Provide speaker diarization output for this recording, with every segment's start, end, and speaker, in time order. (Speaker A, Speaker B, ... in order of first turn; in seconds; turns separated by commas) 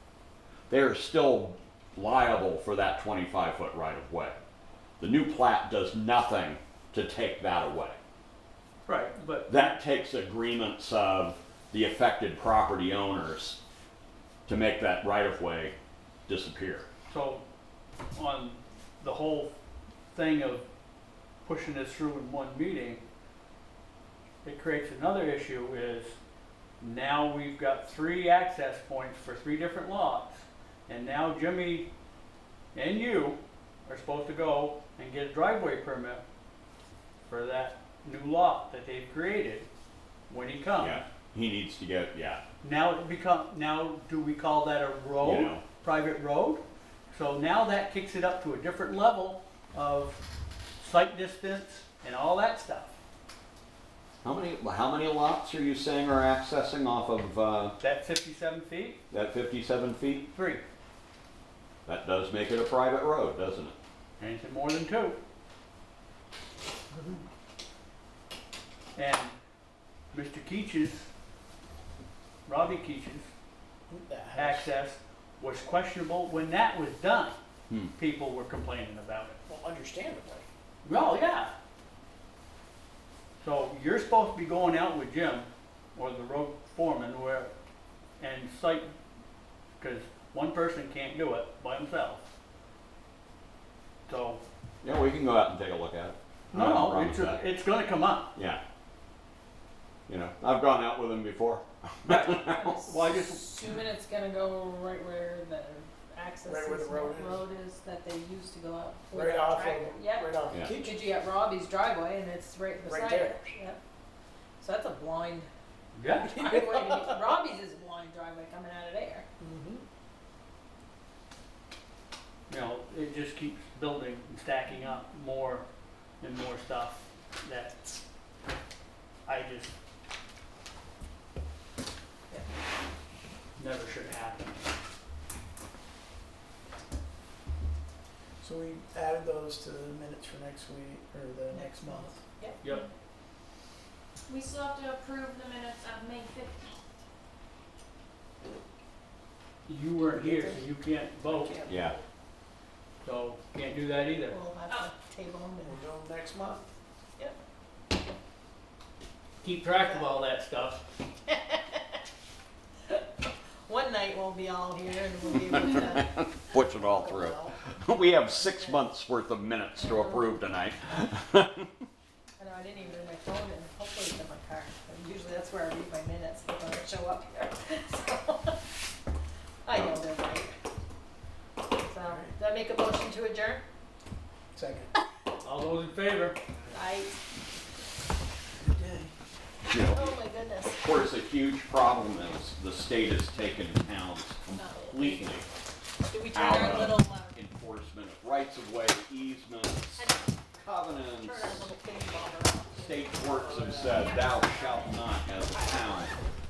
Speaker A: 0.7-4.4, Speaker A: 5.0-8.0, Speaker B: 8.9-9.5, Speaker A: 9.5-13.6, Speaker A: 14.5-15.7, Speaker A: 16.3-16.9, Speaker B: 17.1-17.4, Speaker B: 18.1-19.5, Speaker B: 20.1-20.7, Speaker B: 21.4-23.1, Speaker B: 24.4-26.2, Speaker B: 26.8-31.9, Speaker B: 32.7-36.2, Speaker B: 37.3-39.7, Speaker B: 40.3-41.0, Speaker A: 40.8-42.4, Speaker B: 42.6-50.2, Speaker A: 45.2-45.6, Speaker B: 50.8-52.9, Speaker A: 54.2-57.8, Speaker B: 57.8-59.0, Speaker A: 59.1-60.3, Speaker B: 60.3-60.6, Speaker A: 61.9-63.7, Speaker B: 64.2-65.2, Speaker B: 68.9-69.3, Speaker B: 70.1-71.1, Speaker B: 72.5-73.3, Speaker C: 73.9-74.7, Speaker B: 74.3-77.4, Speaker B: 77.9-79.4, Speaker C: 79.5-80.5, Speaker B: 80.8-81.5, Speaker B: 83.4-87.5, Speaker B: 88.2-88.9, Speaker B: 89.8-92.2, Speaker B: 94.1-94.4, Speaker A: 94.8-97.4, Speaker B: 96.5-98.3, Speaker A: 98.3-98.6, Speaker A: 100.1-102.8, Speaker B: 102.1-103.5, Speaker D: 102.3-113.8, Speaker C: 106.4-107.4, Speaker C: 109.1-111.1, Speaker C: 112.8-113.5, Speaker D: 114.6-115.5, Speaker B: 115.9-116.4, Speaker D: 116.1-119.3, Speaker C: 116.5-117.0, Speaker C: 119.4-119.8, Speaker B: 122.5-125.6, Speaker B: 126.2-128.0, Speaker B: 129.2-129.7, Speaker B: 133.6-134.7, Speaker C: 138.4-142.2, Speaker D: 141.5-142.6, Speaker B: 142.6-142.8, Speaker E: 144.3-146.9, Speaker B: 149.7-151.6, Speaker C: 150.1-152.0, Speaker A: 151.7-151.9, Speaker B: 153.0-154.4, Speaker D: 154.3-155.8, Speaker C: 155.6-156.6, Speaker B: 159.4-160.8, Speaker D: 159.8-160.1, Speaker D: 161.2-161.9, Speaker D: 163.7-166.2, Speaker A: 165.6-171.7, Speaker C: 166.8-167.6, Speaker D: 168.4-168.8, Speaker D: 169.8-170.2, Speaker D: 172.4-178.6, Speaker D: 179.6-180.6, Speaker A: 179.7-180.0, Speaker D: 181.7-183.6, Speaker C: 182.0-182.3, Speaker C: 184.5-184.9, Speaker B: 185.4-186.4, Speaker D: 186.7-187.2, Speaker C: 188.6-189.1, Speaker A: 189.7-195.5, Speaker D: 189.9-190.8, Speaker D: 194.6-195.3, Speaker D: 196.1-197.3, Speaker A: 196.3-200.0, Speaker D: 200.0-200.3, Speaker A: 200.5-201.7, Speaker D: 201.2-202.9, Speaker A: 202.7-206.1, Speaker C: 203.2-204.2, Speaker E: 204.0-205.1